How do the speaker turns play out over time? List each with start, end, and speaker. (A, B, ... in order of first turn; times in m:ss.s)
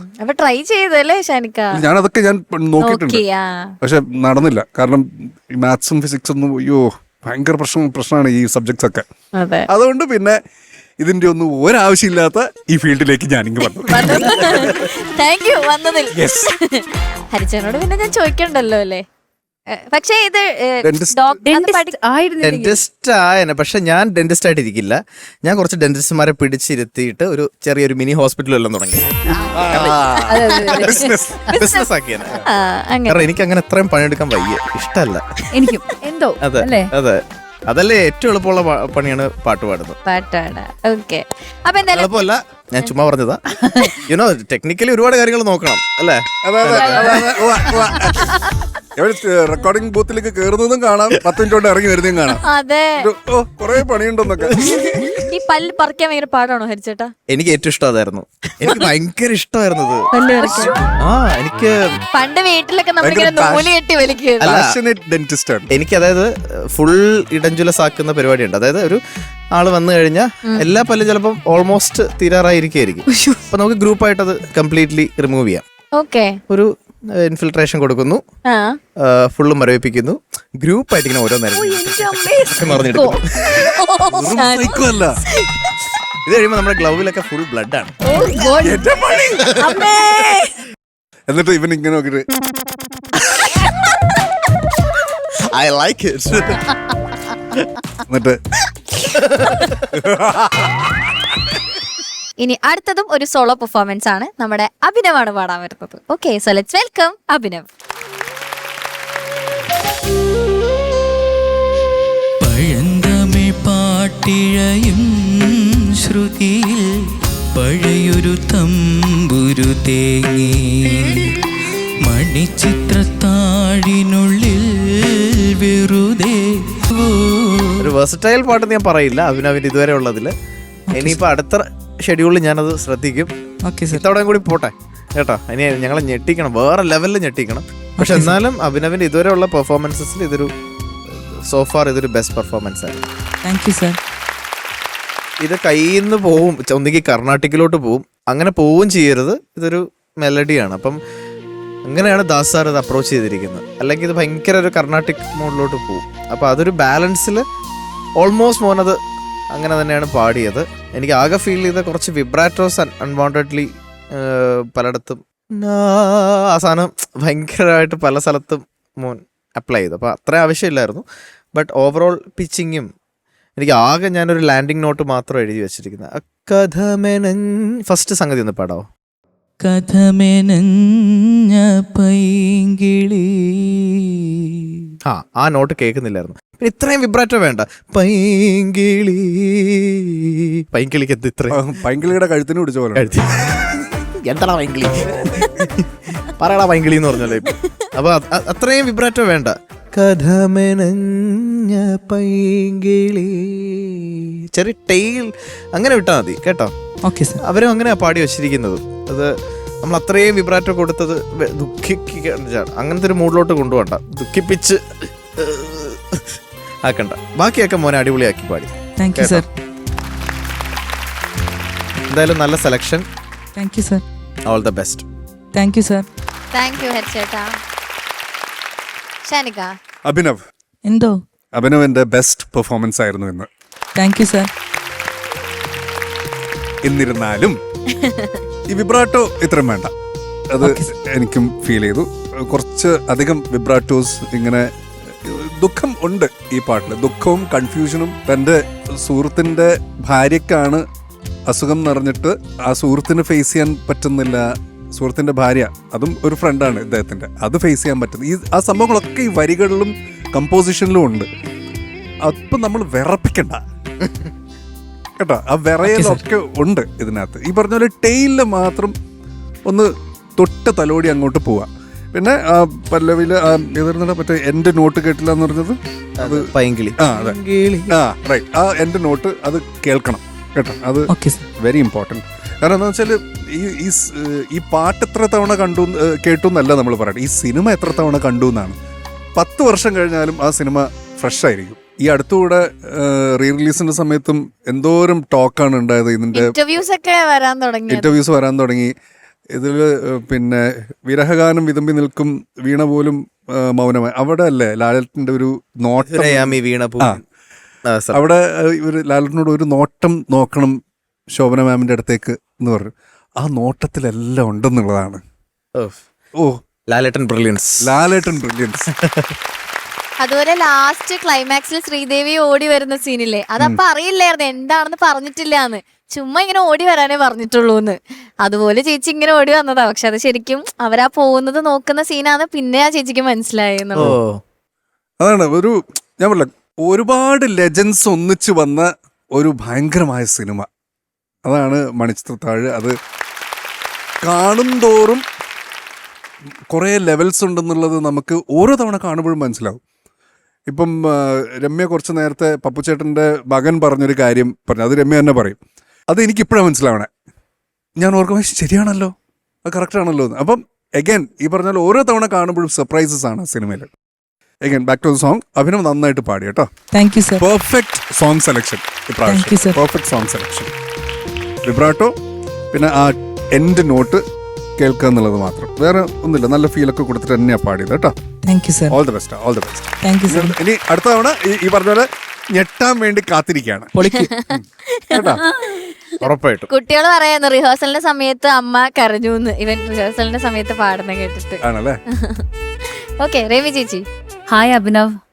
0:00.2-0:01.8 A
0:01.7-0:03.2 B
0:02.8-0:03.8 A
0:03.8-0:09.0 B
0:09.4-0:09.7 A
0:09.7-0:10.4 B
0:11.0-0:14.9 B
0:13.9-0:19.0 A
0:16.1-0:16.6 B
0:19.7-0:22.0 A
0:20.8-0:21.3 B
0:21.2-0:22.8 C
0:22.4-0:29.1 D
0:29.6-0:31.4 B
0:29.7-0:30.0 D
0:30.3-0:31.8 A
0:30.6-0:32.5 D
0:32.5-0:33.3 A
0:33.1-0:35.2 D
0:35.5-0:36.9 C
0:36.4-0:40.0 D
0:40.1-0:42.2 A
0:41.9-0:43.4 D
0:43.6-0:44.0 C
0:44.0-0:47.3 D
0:46.4-0:48.3 B
0:46.7-0:47.7 A
0:49.0-0:52.4 B
0:52.4-0:53.0 A
0:53.0-0:55.3 B
0:54.5-0:54.8 D
0:55.2-0:57.1 A
0:57.3-1:00.1 D
1:00.1-1:00.8 A
1:00.4-1:00.8 C
1:01.0-1:01.8 D
1:02.1-1:04.5 A
1:03.0-1:03.7 B
1:04.4-1:04.8 D
1:04.4-1:05.7 B
1:05.7-1:09.0 D
1:09.5-1:15.6 D
1:13.1-1:13.4 A
1:16.0-1:16.4 A
1:16.5-1:18.2 D
1:18.5-1:18.8 A
1:19.0-1:23.2 D
1:21.5-1:23.2 C
1:23.5-1:25.2 B
1:23.7-1:24.9 A
1:26.3-1:28.0 D
1:28.0-1:28.9 C
1:28.6-1:29.8 B
1:29.6-1:30.5 C
1:31.3-1:32.3 B
1:35.5-1:36.6 D
1:38.1-1:38.4 B
1:39.1-1:39.9 D
1:39.9-1:40.9 B
1:42.4-1:47.6 A
1:52.4-1:56.8 E
1:57.6-2:01.4 E
2:02.0-2:07.9 E
2:07.8-2:10.3 D
2:10.9-2:11.2 E
2:11.0-2:13.3 D
2:13.6-2:14.0 E
2:13.9-2:20.5 D
2:18.0-2:18.4 E
2:21.1-2:23.1 D
2:23.4-2:24.0 E
2:25.4-2:31.0 D
2:31.8-2:37.4 D
2:38.2-2:39.0 D
2:39.5-2:51.0 D
2:51.6-2:52.9 D
2:53.6-2:58.9 D
2:59.6-3:03.8 E
3:05.1-3:11.6 D
3:11.5-3:13.1 B
3:13.0-3:13.4 D
3:14.2-3:26.7 D
3:27.0-3:27.4 E
3:27.4-3:29.3 D
3:29.8-3:39.4 D
3:39.0-3:39.5 E
3:42.1-3:43.1 D
3:43.6-3:44.0 E
3:44.5-3:45.0 D
3:45.5-3:46.1 E
3:46.5-3:47.6 A
3:49.2-3:49.7 A
3:50.1-3:50.4 B
3:50.9-3:51.2 E
3:51.6-3:53.5 B
3:54.0-3:54.5 E
3:56.8-3:57.6 B
3:57.9-3:58.4 A
3:58.7-3:59.9 B
4:00.5-4:10.8 B
4:00.6-4:00.9 E
4:11.5-4:21.3 B
4:22.2-4:23.6 B
4:25.2-4:29.0 B
4:25.8-4:26.2 E
4:29.7-4:37.4 B
4:36.2-4:37.9 D
4:37.9-4:48.8 B
4:41.1-4:41.4 E
4:49.4-4:56.5 B
4:56.4-4:58.1 A
4:57.9-4:58.9 B
4:59.5-5:07.2 B
5:06.0-5:07.2 D
5:07.9-5:08.2 D
5:08.1-5:10.8 B
5:11.3-5:15.2 B
5:16.9-5:18.0 D
5:17.8-5:18.9 B
5:19.0-5:19.3 D
5:20.2-5:34.1 A
5:34.0-5:34.4 D
5:35.2-5:40.7 B
5:41.5-5:43.0 B
5:44.2-5:45.2 B
5:46.7-5:49.8 B
5:50.7-5:55.6 B
5:56.1-5:57.1 B
5:58.0-5:59.1 B
5:59.6-6:03.9 B
6:04.6-6:06.7 B
6:06.9-6:07.4 E
6:07.4-6:10.7 B
6:09.3-6:09.8 E
6:11.7-6:12.2 B
6:12.7-6:14.2 B
6:14.8-6:18.2 B
6:18.4-6:19.0 E
6:18.9-6:23.9 B
6:20.0-6:20.6 E
6:24.0-6:24.3 E
6:24.5-6:25.4 B
6:24.9-6:25.4 A
6:25.3-6:25.9 C
6:26.2-6:26.7 D
6:26.7-6:32.4 A
6:31.6-6:32.0 B
6:33.2-6:34.0 A
6:34.5-6:35.1 C